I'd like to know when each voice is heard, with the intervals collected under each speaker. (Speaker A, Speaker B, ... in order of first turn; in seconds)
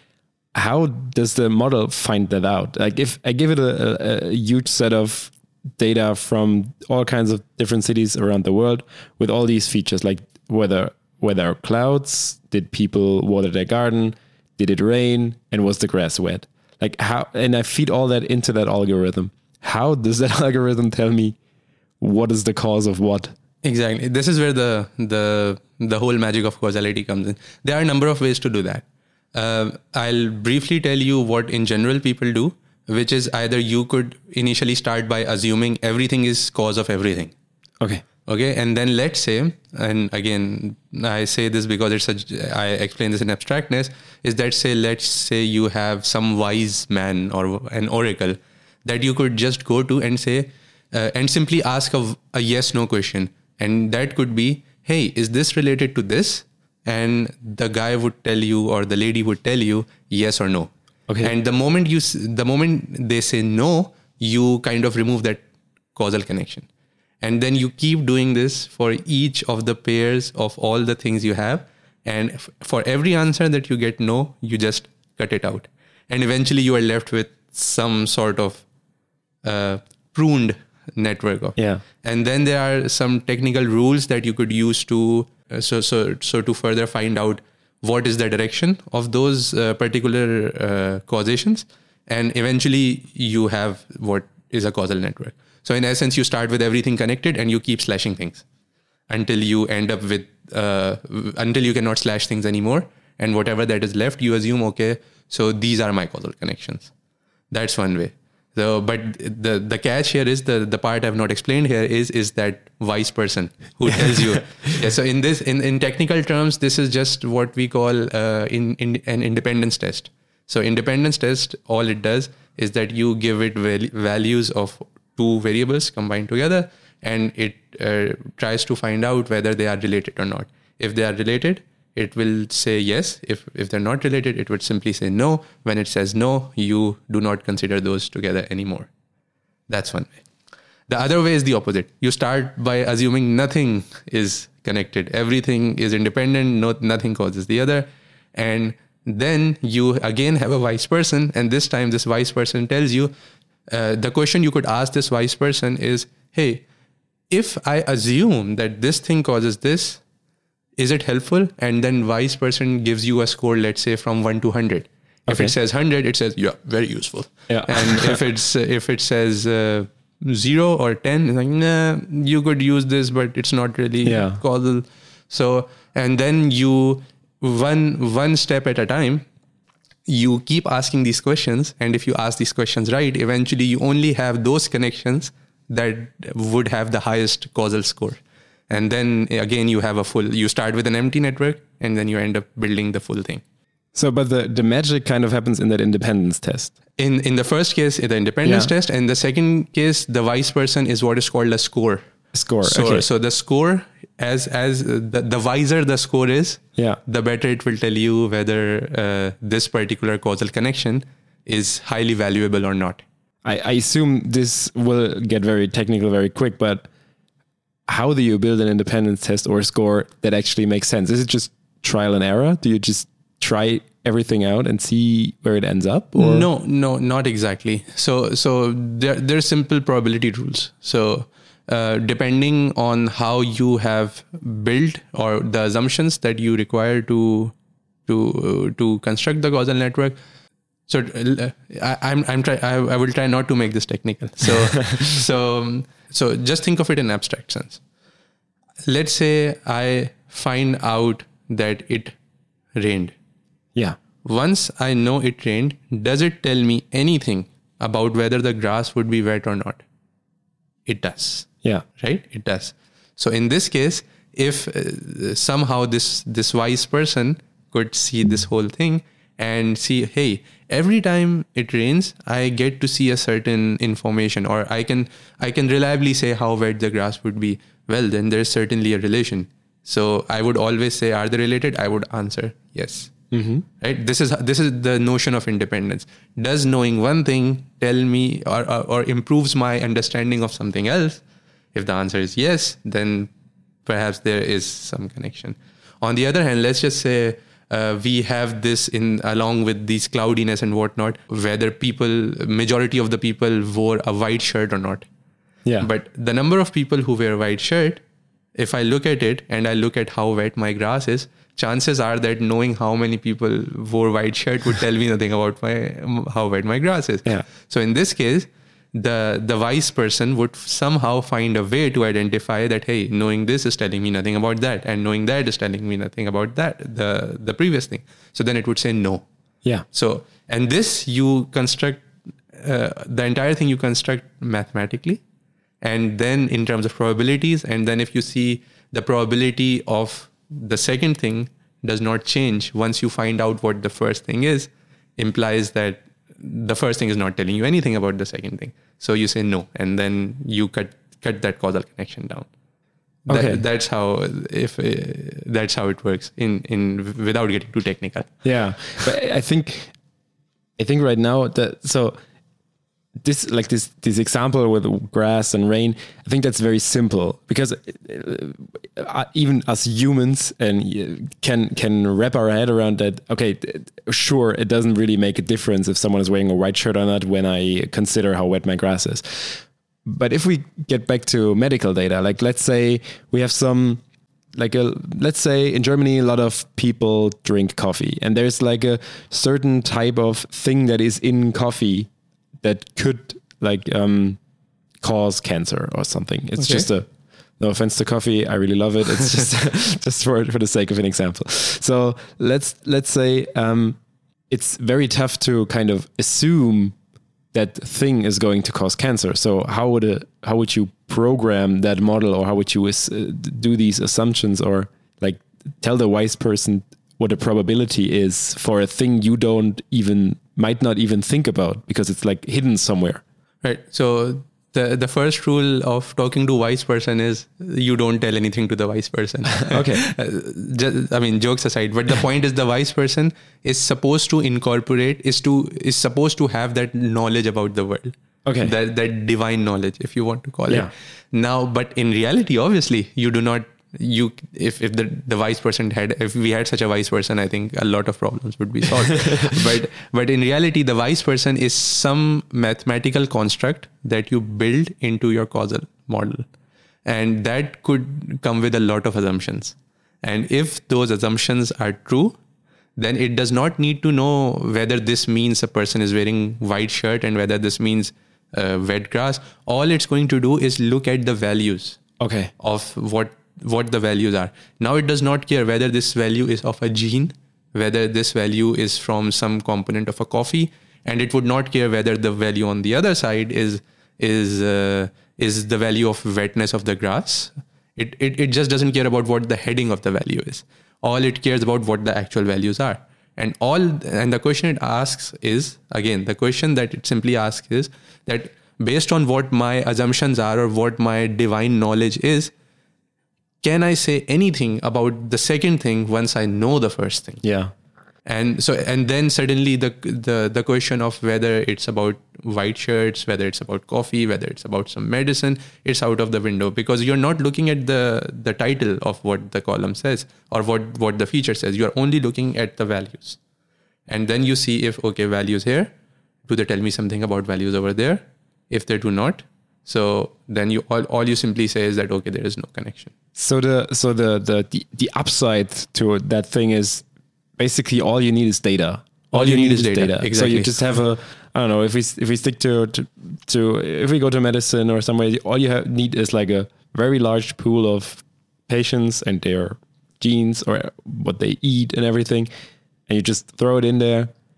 Speaker A: 0.5-21.4, 22.0-23.3, 81.6-81.8, 165.3-165.5, 167.5-168.2, 174.1-174.4, 193.9-196.7, 198.4-198.7, 202.3-203.1, 213.4-216.9, 217.9-226.4, 283.3-283.6, 353.3-353.6, 358.4-359.9, 360.8-362.2, 363.2-384.0, 384.6-392.1, 392.6-394.4, 395.0-397.1, 397.6-404.0, 404.5-406.9, 407.5-423.2, 429.6-430.0, 438.4-438.7, 472.2-472.5, 507.4-507.7, 533.4-537.0, 537.6-552.5, 553.1-554.3
Speaker B: 23.6-37.3, 38.2-60.7, 61.2-65.4, 65.9-66.7, 67.2-78.6, 79.4-98.4, 99.1-106.9, 107.5-138.9, 139.7-140.2, 140.9-153.1, 153.7-156.6, 157.3-160.0, 160.8-179.2, 180.1-193.4, 197.0-202.0, 202.6-213.1, 226.1-237.5, 238.1-240.2, 240.9-247.8, 248.9-252.2, 252.8-253.1, 254.2-259.8, 260.9-261.5, 262.0-283.1, 283.8-291.2, 291.7-293.3, 293.9-305.1, 305.8-308.0, 308.6-329.2, 329.9-332.1, 332.6-335.2, 335.8-352.5, 353.3-358.3, 396.6-396.9, 423.6-456.4, 457.1-462.4, 463.0-472.0, 472.6-502.5, 503.6-507.4, 508.2-523.4, 524.1-525.9, 526.5-533.1, 539.3-540.7